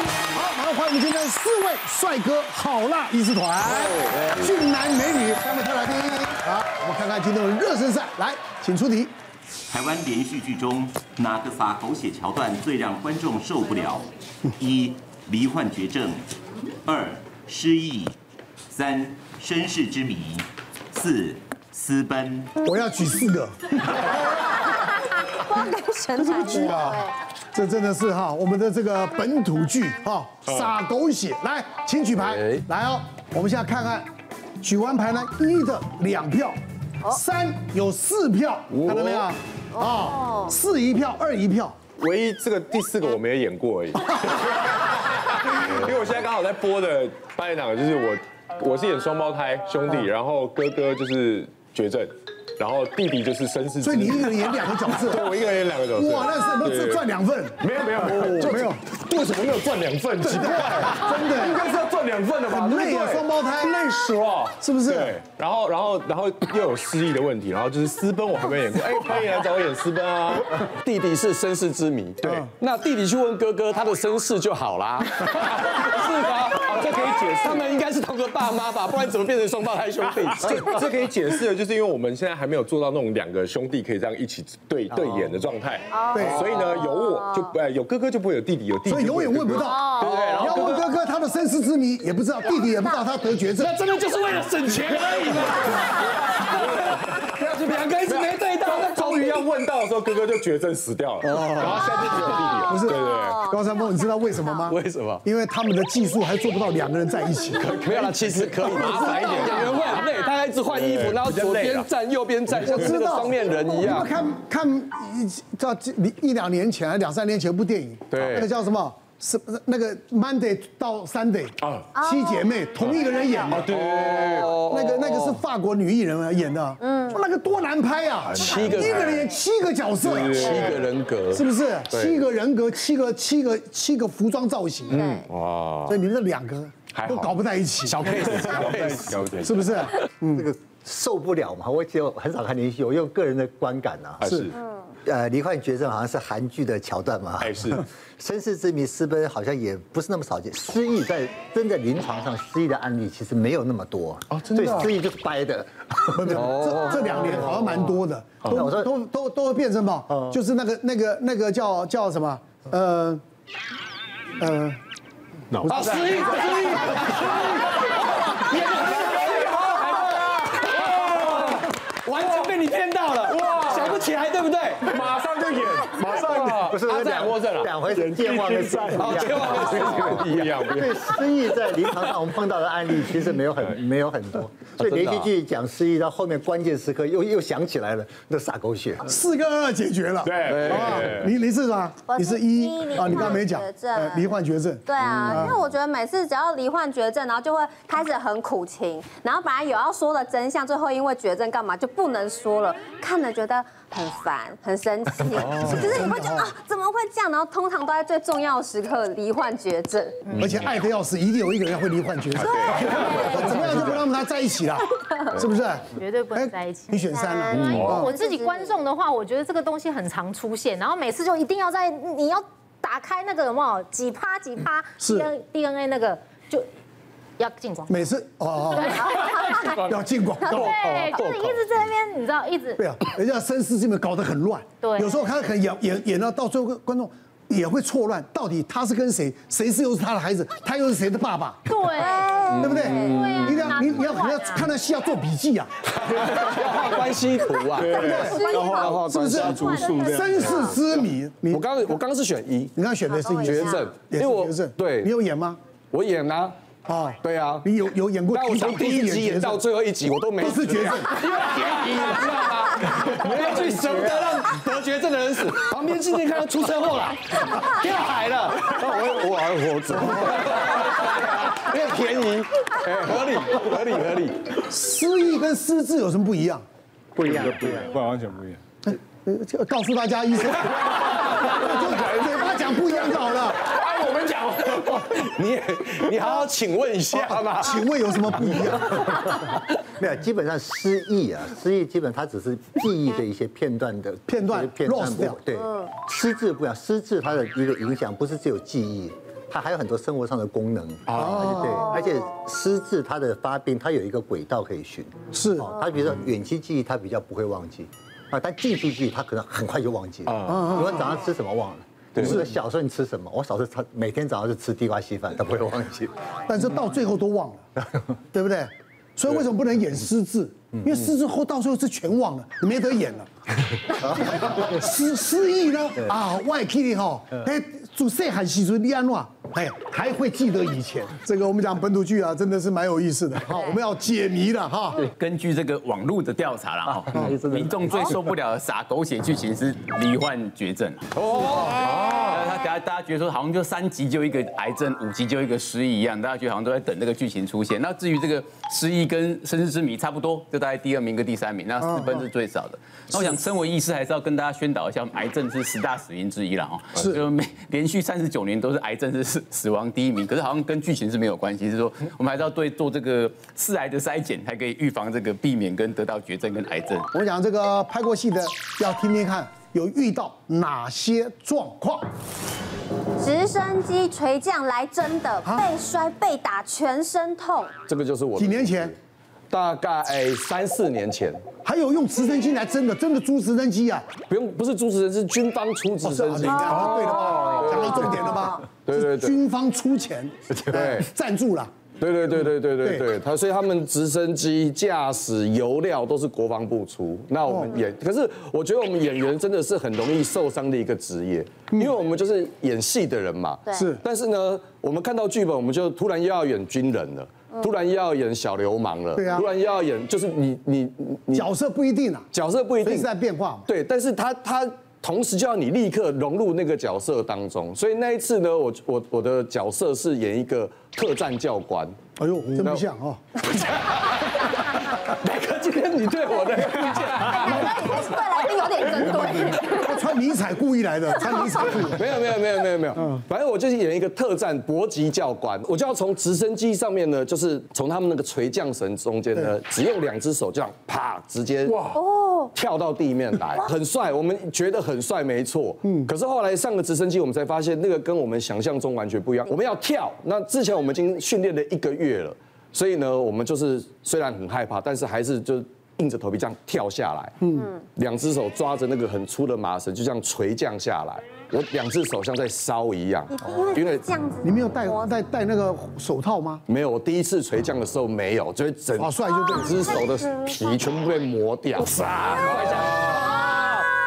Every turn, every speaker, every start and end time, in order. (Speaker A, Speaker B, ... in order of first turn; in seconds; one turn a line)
Speaker A: 0.3-9.1
Speaker B: 3.7-4.4
Speaker C: 9.7-14.1
Speaker C: 14.6-16.3
Speaker C: 16.9-18.1
Speaker C: 18.7-22.5
Speaker A: 22.6-24.2
Speaker D: 24.4-27.1
Speaker A: 26.2-34.1
Speaker E: 30.5-30.7
Speaker B: 32.3-32.6
Speaker A: 34.6-41.8
Speaker D: 39.7-40.5
Speaker E: 42.0-57.1
Speaker A: 53.8-55.3
Speaker A: 55.9-58.8
Speaker E: 57.6-70.7
Speaker A: 60.2-61.8
Speaker A: 62.5-63.8
Speaker A: 64.6-65.2
Speaker B: 70.8-80.8
Speaker A: 72.2-72.5
Speaker E: 76.5-77.7
Speaker E: 80.4-90.9
Speaker F: 84.9-85.3
Speaker D: 85.9-87.4
Speaker A: 86.1-86.5
Speaker A: 88.9-93.8
Speaker B: 90.0-90.8
Speaker B: 93.6-99.4
Speaker E: 98.0-103.5
Speaker B: 101.2-102.3
Speaker A: 102.6-109.7
Speaker D: 102.8-104.7
Speaker B: 104.7-105.2
Speaker B: 107.6-114.1
Speaker E: 108.7-110.0
Speaker D: 109.8-110.2
Speaker E: 110.7-111.9
Speaker A: 112.6-130.4
Speaker B: 118.1-118.5
Speaker E: 121.6-121.9
Speaker D: 122.0-123.5
Speaker E: 123.5-124.5
Speaker B: 123.7-125.4
Speaker D: 126.8-127.2
Speaker E: 128.3-129.2
Speaker B: 128.4-129.2
Speaker E: 130.0-130.9
Speaker B: 130.3-132.3
Speaker A: 131.3-135.1
Speaker D: 134.9-135.3
Speaker B: 135.2-135.9
Speaker A: 135.9-138.1
Speaker E: 136.9-137.3
Speaker B: 137.9-139.2
Speaker E: 138.1-139.7
Speaker A: 139.4-140.5
Speaker F: 140.3-144.3
Speaker E: 144.2-144.5
Speaker A: 144.3-144.5
Speaker F: 145.0-156.3
Speaker E: 147.4-147.8
Speaker E: 154.5-154.9
Speaker A: 156.1-163.2
Speaker B: 156.3-157.6
Speaker F: 158.5-158.9
Speaker F: 160.1-160.4
Speaker A: 164.4-164.8
Speaker E: 165.5-167.3
Speaker A: 165.6-166.0
Speaker B: 165.7-175.0
Speaker E: 168.6-171.5
Speaker E: 173.3-174.0
Speaker E: 174.8-181.1
Speaker F: 176.0-189.1
Speaker B: 178.9-180.8
Speaker B: 184.8-185.3
Speaker A: 189.1-195.6
Speaker E: 190.2-191.3
Speaker B: 190.4-191.1
Speaker D: 192.1-194.3
Speaker D: 194.9-210.3
Speaker E: 205.4-205.8
Speaker A: 205.4-206.5
Speaker A: 210.4-218.1
Speaker E: 210.4-210.7
Speaker E: 212.4-214.0
Speaker D: 212.8-213.8
Speaker G: 215.9-217.0
Speaker D: 217.1-218.8
Speaker E: 217.5-218.0
Speaker G: 217.8-226.7
Speaker A: 225.0-225.3
Speaker G: 227.4-228.0
Speaker A: 227.9-230.8
Speaker G: 228.7-229.8
Speaker D: 229.1-229.6
Speaker D: 230.4-231.4
Speaker G: 230.6-232.8
Speaker B: 230.6-231.6
Speaker A: 232.8-241.7
Speaker G: 234.8-235.2
Speaker G: 241.7-244.6
Speaker D: 241.9-243.3
Speaker B: 242.5-243.6
Speaker A: 242.6-245.8
Speaker B: 245.9-250.5
Speaker D: 247.7-250.8
Speaker E: 247.8-250.4
Speaker A: 247.9-251.6
Speaker B: 251.5-252.7
Speaker A: 252.8-255.6
Speaker D: 253.1-253.9
Speaker B: 253.4-255.1
Speaker B: 255.9-256.6
Speaker A: 256.9-259.6
Speaker B: 257.2-257.7
Speaker B: 258.3-274.5
Speaker A: 260.4-261.2
Speaker A: 270.0-270.2
Speaker A: 274.6-276.6
Speaker F: 277.2-278.0
Speaker E: 277.2-278.6
Speaker A: 278.9-283.6
Speaker E: 283.8-284.7
Speaker B: 283.8-287.8
Speaker A: 286.2-286.5
Speaker A: 287.1-289.1
Speaker F: 288.3-316.1
Speaker B: 289.0-289.6
Speaker A: 294.3-295.4
Speaker D: 295.6-295.9
Speaker E: 301.1-301.6
Speaker A: 301.1-301.9
Speaker D: 301.7-302.3
Speaker A: 305.3-305.7
Speaker E: 310.3-310.6
Speaker A: 310.4-311.1
Speaker A: 312.2-312.5
Speaker A: 316.5-317.6
Speaker A: 318.3-323.3
Speaker A: 323.9-335.0
Speaker F: 324.2-324.7
Speaker H: 335.0-341.0
Speaker F: 337.0-337.7
Speaker B: 341.2-341.9
Speaker H: 341.6-367.1
Speaker E: 341.9-342.4
Speaker A: 351.8-352.2
Speaker A: 367.1-372.0
Speaker D: 373.2-377.8
Speaker B: 377.9-378.9
Speaker A: 378.4-378.9
Speaker B: 379.5-381.4
Speaker A: 381.6-384.1
Speaker B: 384.3-388.3
Speaker A: 386.0-391.7
Speaker D: 386.6-387.6
Speaker D: 388.1-388.5
Speaker B: 388.9-389.4
Speaker B: 390.7-391.1
Speaker B: 392.0-411.5
Speaker A: 392.8-393.1
Speaker A: 397.4-397.8
Speaker A: 403.7-404.0
Speaker A: 409.1-409.5
Speaker A: 411.3-412.3
Speaker B: 412.3-413.1
Speaker A: 412.8-413.7
Speaker B: 413.7-422.0
Speaker A: 422.2-423.4
Speaker B: 423.5-428.2
Speaker D: 426.3-430.0
Speaker B: 428.9-429.4
Speaker A: 429.6-432.1
Speaker B: 432.0-442.0
Speaker A: 432.9-433.2
Speaker E: 441.7-442.0
Speaker D: 441.9-442.5
Speaker B: 442.5-457.4
Speaker A: 445.8-446.1
Speaker A: 457.4-457.7
Speaker D: 457.5-457.9
Speaker B: 458.0-464.0
Speaker D: 463.3-465.1
Speaker A: 464.4-466.6
Speaker B: 466.7-473.8
Speaker A: 469.0-469.8
Speaker D: 473.6-473.8